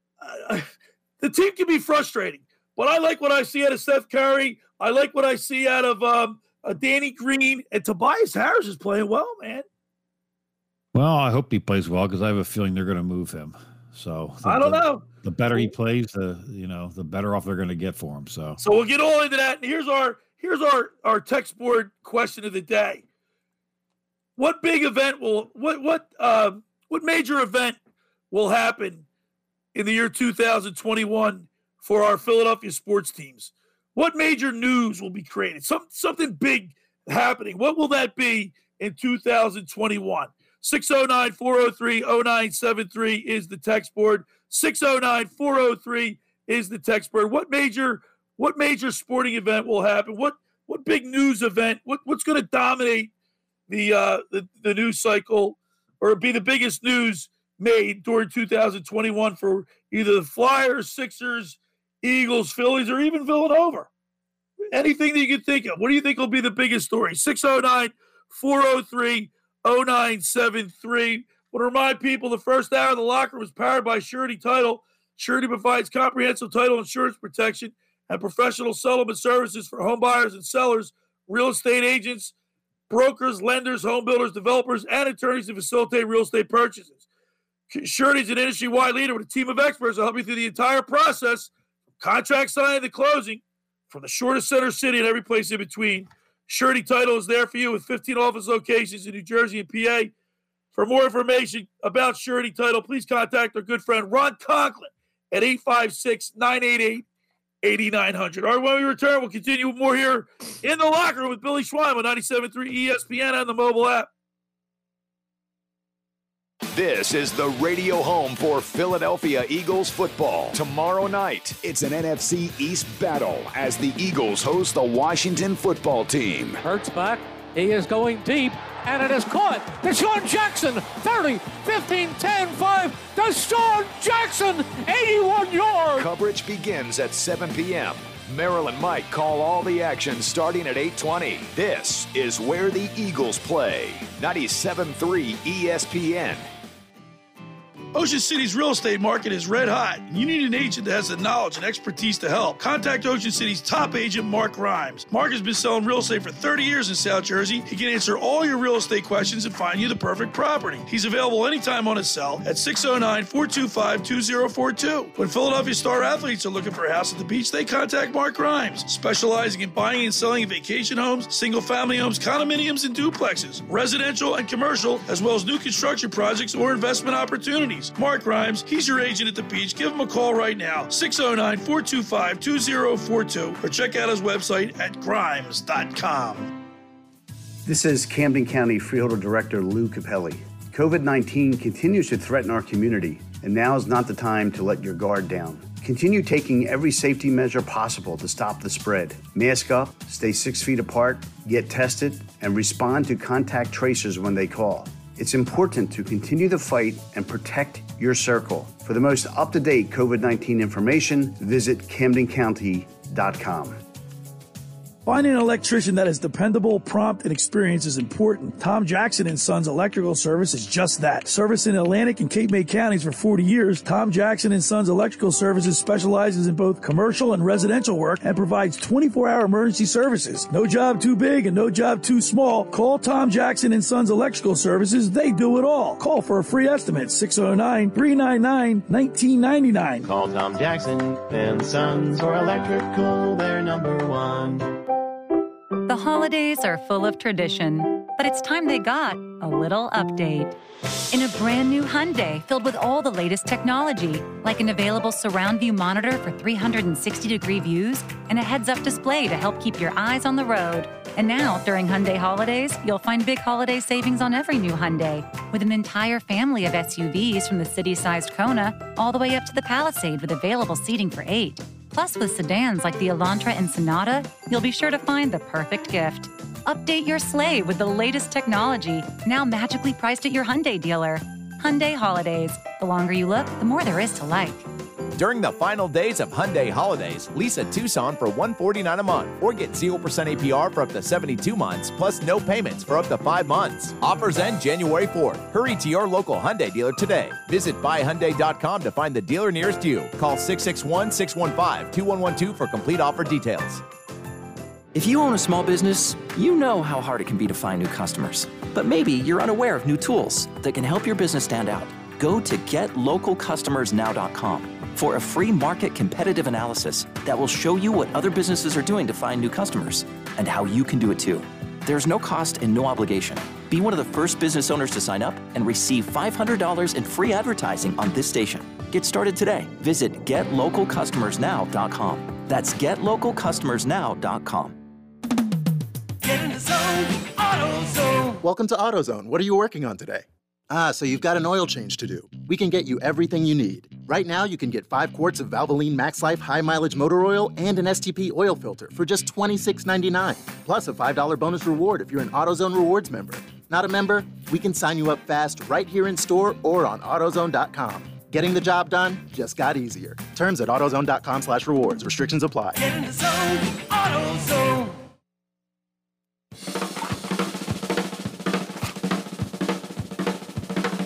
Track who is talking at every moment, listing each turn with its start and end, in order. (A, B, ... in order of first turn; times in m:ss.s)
0:00.2-0:09.6 A
0:10.9-0:18.6 B
0:14.4-0:15.7 A
0:18.6-0:23.0 A
0:24.4-0:27.8 A
0:28.3-0:29.0 A
0:29.7-0:53.1 A
0:53.7-1:03.9 A
1:04.7-1:22.3 A
1:22.9-1:27.0 A
1:27.7-1:40.1 A
1:40.7-1:47.0 A
1:47.6-1:54.1 A
1:56.7-2:06.6 C
2:06.6-2:16.1 D
2:15.9-2:26.5 C
2:27.9-3:06.5 A
3:07.6-3:33.8 E
3:35.0-4:00.1 A
4:00.0-4:04.7 F
4:05.9-4:10.5 G
4:11.1-4:44.6 G
4:45.2-5:03.8 H
5:04.9-5:34.8 I
5:38.4-6:03.0 J